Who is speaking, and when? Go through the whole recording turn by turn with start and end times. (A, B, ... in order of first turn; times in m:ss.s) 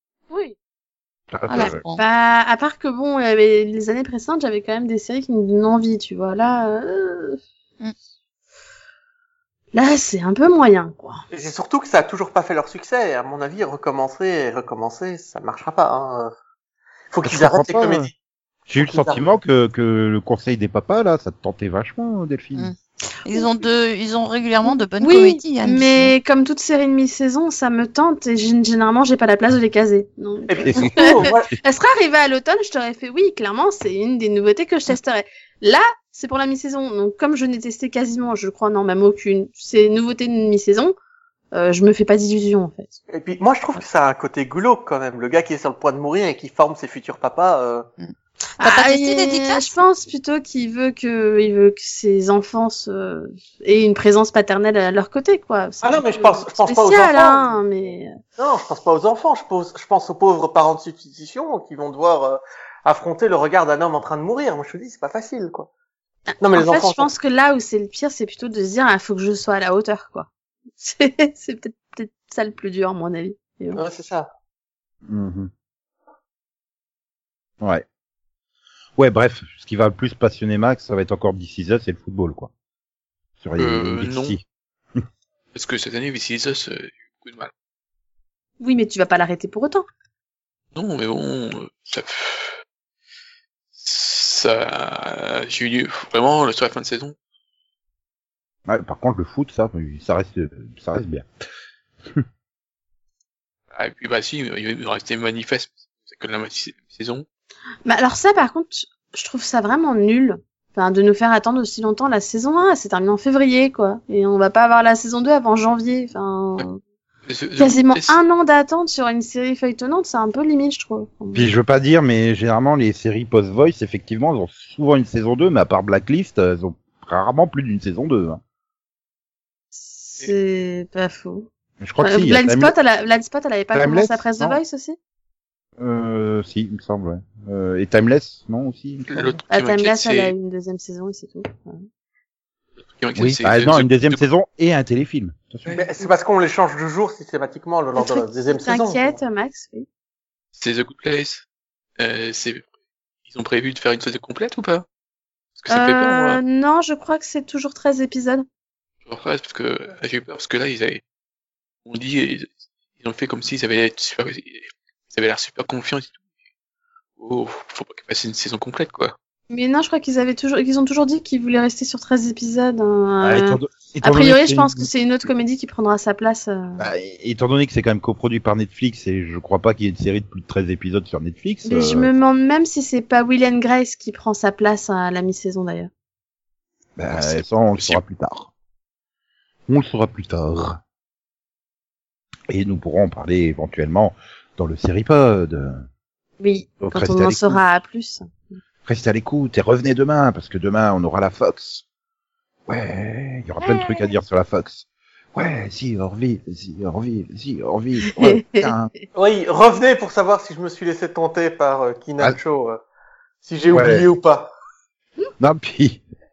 0:00.3-0:00.6 A
0:01.3-0:01.8 B
0:01.5-0:02.0 C
0:01.5-0:07.4 A
0:09.7-0:11.2 A
0:11.3-0:16.3 D
0:17.1-0:18.2 D
0:17.2-0:18.1 B
0:18.7-0:22.7 B
0:18.8-0:19.2 D
0:22.6-0:26.1 C
0:25.0-0:41.0 A
0:30.5-0:31.5 D
0:30.6-0:31.6 B
0:41.5-0:43.0 A
0:43.1-0:47.9 D
0:48.0-0:49.8 C
0:48.6-0:58.2 A
0:55.8-0:57.6 D
0:58.4-1:05.7 D
1:06.3-1:13.8 A
1:06.4-1:07.1 D
1:13.7-1:14.3 D
1:15.1-1:15.5 B
1:19.0-1:22.5 B
1:23.4-1:24.4 B
1:23.6-1:24.4 E
1:25.5-1:27.5 E
1:28.6-1:29.9 A
1:30.8-1:32.6 E
1:33.8-1:37.2 E
1:38.7-1:41.3 B
1:43.7-1:47.2 E
1:47.9-1:56.8 A
1:57.3-1:58.2 E
1:57.6-2:01.5 A
2:01.3-2:08.4 B
2:09.9-2:11.5 A
2:11.8-2:12.8 B
2:12.0-2:15.0 A
2:13.7-2:14.6 B
2:15.8-2:19.4 B
2:19.1-2:20.3 E
2:19.5-2:21.8 A
2:22.8-2:24.2 E
2:23.2-2:25.8 B
2:25.7-2:29.2 D
2:28.0-2:29.9 A
2:30.6-2:31.4 E
2:32.0-2:32.7 E
2:33.3-2:34.9 E
2:35.6-2:36.4 E
2:35.7-2:38.4 A
2:39.1-2:41.0 E
2:41.8-2:46.2 E
2:47.2-2:49.2 E
2:49.5-2:56.8 A
2:53.2-2:54.9 B
2:56.8-3:02.1 B
3:01.7-3:05.9 A
3:07.0-3:08.5 B
3:07.1-3:08.0 E
3:09.7-3:10.8 B
3:12.5-3:15.9 B
3:16.4-3:18.6 A
3:16.8-3:17.6 B
3:18.9-3:21.8 B
3:22.7-3:28.9 B
3:23.6-3:24.1 A
3:28.2-3:28.7 A
3:29.2-3:32.8 D
3:33.4-3:34.5 D
3:33.7-3:34.1 B
3:35.4-3:36.0 B